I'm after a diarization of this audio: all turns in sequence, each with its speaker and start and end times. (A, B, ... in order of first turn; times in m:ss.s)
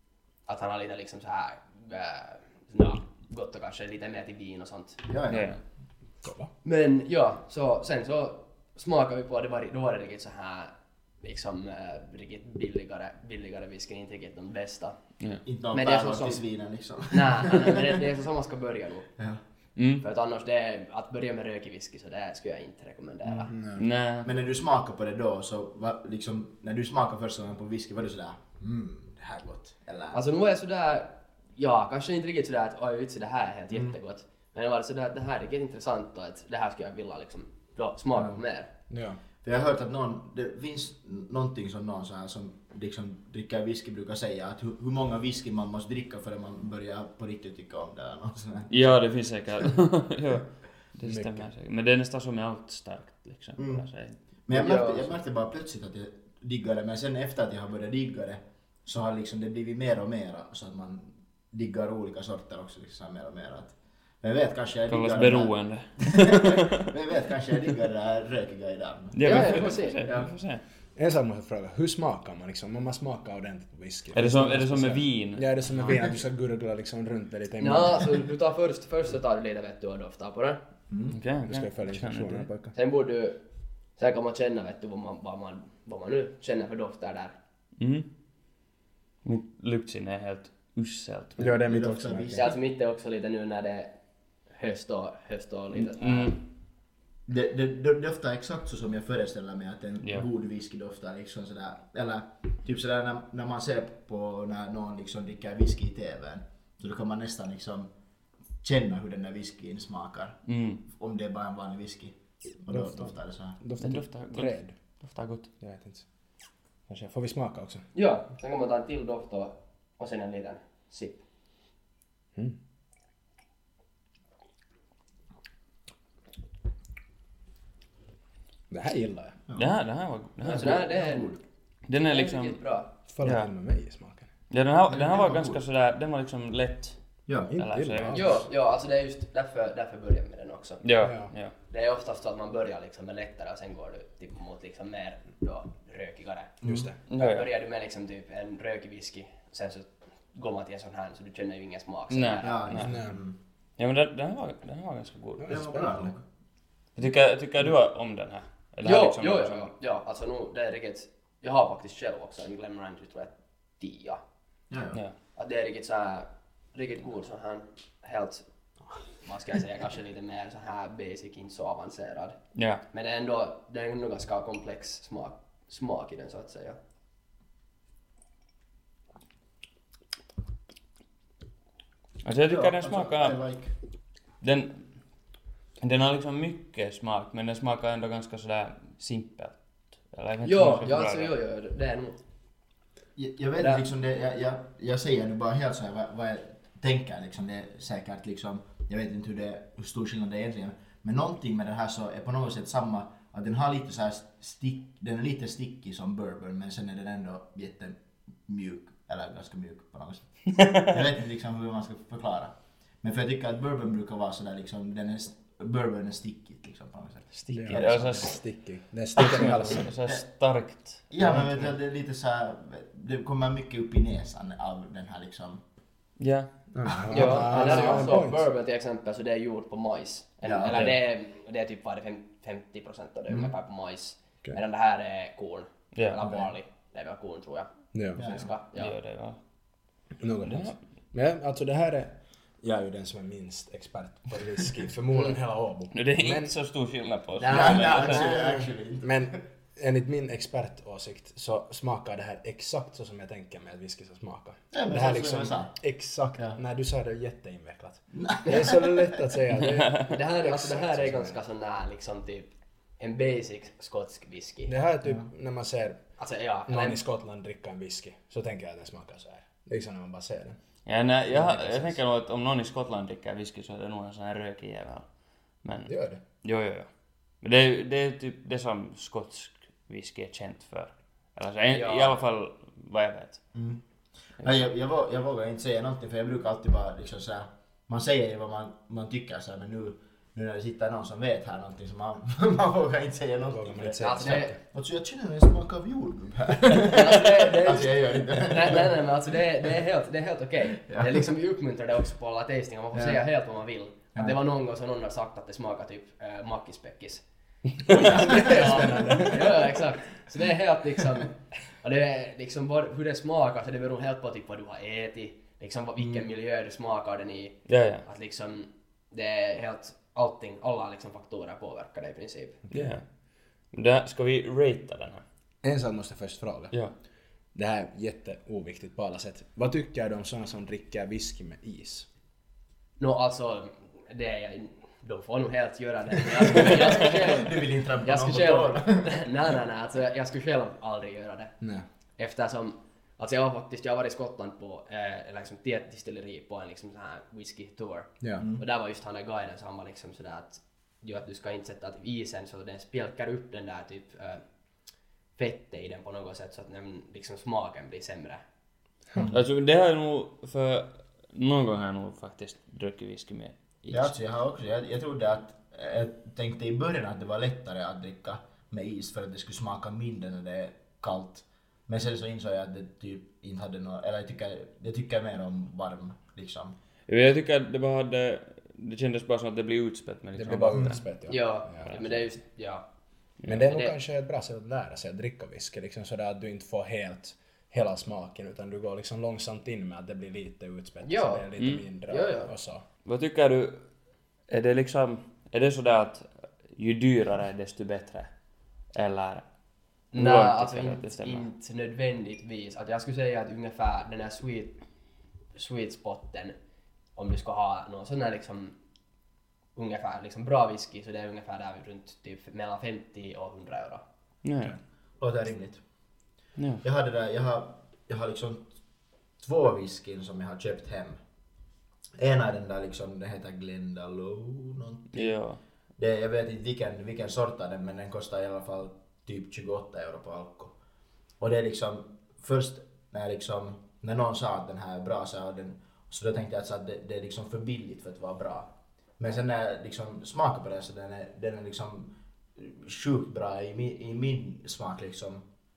0:00.5-0:05.0 A
0:05.0-0:05.6 B
0:05.3-0:05.6 C
0:06.2-0:06.5 D
0:06.6-0:15.0 A
0:15.4-0:17.8 B
0:15.7-0:16.4 A
0:17.1-0:19.1 A
0:19.8-0:20.0 C
0:20.0-0:23.5 A
0:23.2-0:23.5 B
0:23.5-0:23.8 D
0:23.8-0:24.3 C
0:24.2-0:30.2 B
0:30.1-0:38.7 A
0:38.2-0:38.4 B
0:38.9-0:39.2 D
0:39.4-0:48.9 B
0:48.7-0:54.2 C
0:51.0-0:51.5 D
0:53.6-0:53.8 B
0:54.5-1:10.3 B
0:54.5-0:55.2 A
1:04.9-1:06.9 C
1:09.1-1:10.6 C
1:09.2-1:10.1 A
1:11.0-1:18.3 D
1:14.1-1:15.9 C
1:17.6-1:20.6 A
1:20.9-1:21.2 B
1:21.1-1:22.5 C
1:21.5-1:22.8 D
1:22.7-1:23.4 A
1:24.0-1:27.4 A
1:27.8-1:28.1 C
1:29.2-1:31.5 C
1:31.4-1:32.5 D
1:31.5-1:32.6 B
1:32.3-1:34.0 A
1:34.5-1:36.4 A
1:35.8-1:36.4 C
1:37.3-1:47.9 B
1:40.0-1:40.3 C
1:48.6-1:53.6 B
1:50.5-1:50.8 C
1:52.7-1:54.8 D
1:53.8-1:55.5 C
1:55.6-1:56.1 D
1:56.9-1:57.8 D
1:58.0-2:01.2 A
2:08.7-2:09.4 D
2:09.6-2:10.9 C
2:10.4-2:11.4 A
2:10.5-2:11.4 B
2:11.9-2:12.6 C
2:12.0-2:12.9 A
2:13.1-2:14.3 D
2:13.2-2:13.5 C
2:14.5-2:17.0 C
2:14.9-2:15.6 B
2:17.4-2:18.5 D
2:17.6-2:18.4 C
2:18.1-2:20.8 A
2:20.8-2:21.5 C
2:21.0-2:21.3 D
2:21.7-2:26.6 A
2:26.6-2:26.9 B
2:26.6-2:27.0 D
2:27.1-2:27.5 C
2:27.1-2:32.8 A
2:32.1-2:33.0 C
2:32.4-2:33.4 B
2:32.8-2:33.2 D
2:33.8-2:35.7 C
2:35.4-2:36.1 D
2:35.5-2:36.2 B
2:37.0-2:39.7 C
2:38.8-2:44.2 A
2:44.7-2:45.0 B
2:45.4-2:48.4 A
2:49.2-2:52.4 A
2:52.6-2:52.8 C
2:52.9-2:56.8 A
3:02.2-3:03.4 C
3:02.4-3:03.7 B
3:04.4-3:04.9 C
3:05.8-3:11.3 C
3:10.4-3:12.2 A
3:13.2-3:38.4 B
3:13.6-3:13.8 A
3:30.6-3:30.9 C
3:37.3-3:38.4 C
3:37.5-3:39.9 D
3:39.2-3:41.7 C
3:39.2-3:40.2 B
3:41.1-3:45.6 B
3:46.2-3:46.5 C
3:46.7-3:48.4 D
3:47.1-3:48.2 B
3:47.1-3:59.0 A
3:50.4-3:50.9 B
3:55.9-3:56.2 C
3:57.9-3:58.2 D
3:58.2-3:58.5 B
3:58.7-3:59.4 C
4:00.2-4:06.5 D
4:00.5-4:00.8 C
4:05.9-4:08.3 C
4:07.4-4:08.3 A
4:07.5-4:21.4 D
4:07.5-4:09.3 B
4:14.7-4:15.7 B
4:18.1-4:19.2 B
4:19.7-4:20.1 C
4:20.1-4:24.7 A
4:24.7-4:26.0 D
4:26.2-4:27.0 A
4:26.7-4:30.6 D
4:30.9-4:35.1 C
4:31.3-4:31.9 D
4:35.6-4:36.9 C
4:35.9-4:36.2 D
4:37.4-4:43.4 C
4:41.7-4:42.2 A
4:43.5-4:43.8 B
4:44.4-4:59.0 B
4:53.5-4:54.6 D
4:54.0-4:54.6 A
4:56.7-5:07.2 A
5:00.8-5:01.2 B
5:02.9-5:03.2 B
5:07.9-5:22.6 A
5:07.9-5:09.8 D
5:17.7-5:18.0 C
5:22.7-5:23.0 D
5:22.7-5:23.0 C
5:23.7-5:25.2 C
5:25.6-5:26.8 D
5:27.5-5:32.1 D
5:33.0-5:41.6 A
5:36.5-5:39.3 B
5:41.6-5:41.9 D
5:42.2-5:54.4 A
5:48.2-5:48.5 D
5:48.4-5:48.6 B
5:55.4-5:58.4 A
5:59.3-6:04.1 C
6:03.9-6:16.8 B
6:17.1-6:21.0 C
6:20.4-6:22.0 D
6:20.7-6:21.0 B
6:21.3-6:22.8 A
6:23.4-6:32.8 D
6:23.7-6:24.0 A
6:31.0-6:31.5 A
6:31.6-6:31.8 C
6:32.1-6:32.5 A
6:33.0-6:33.8 C
6:34.5-6:38.3 C
6:38.9-6:39.5 C
6:40.1-6:44.8 A
6:40.1-6:41.5 C
6:45.5-6:46.6 A
6:47.2-6:48.8 A
6:49.8-6:54.0 A
6:54.4-6:54.7 C
6:55.2-6:55.8 B
6:56.6-6:56.8 C
6:56.8-6:58.8 B
6:59.4-7:01.2 B
7:02.2-7:05.4 B
7:05.1-7:05.6 C
7:06.0-7:10.8 B
7:11.4-7:25.4 B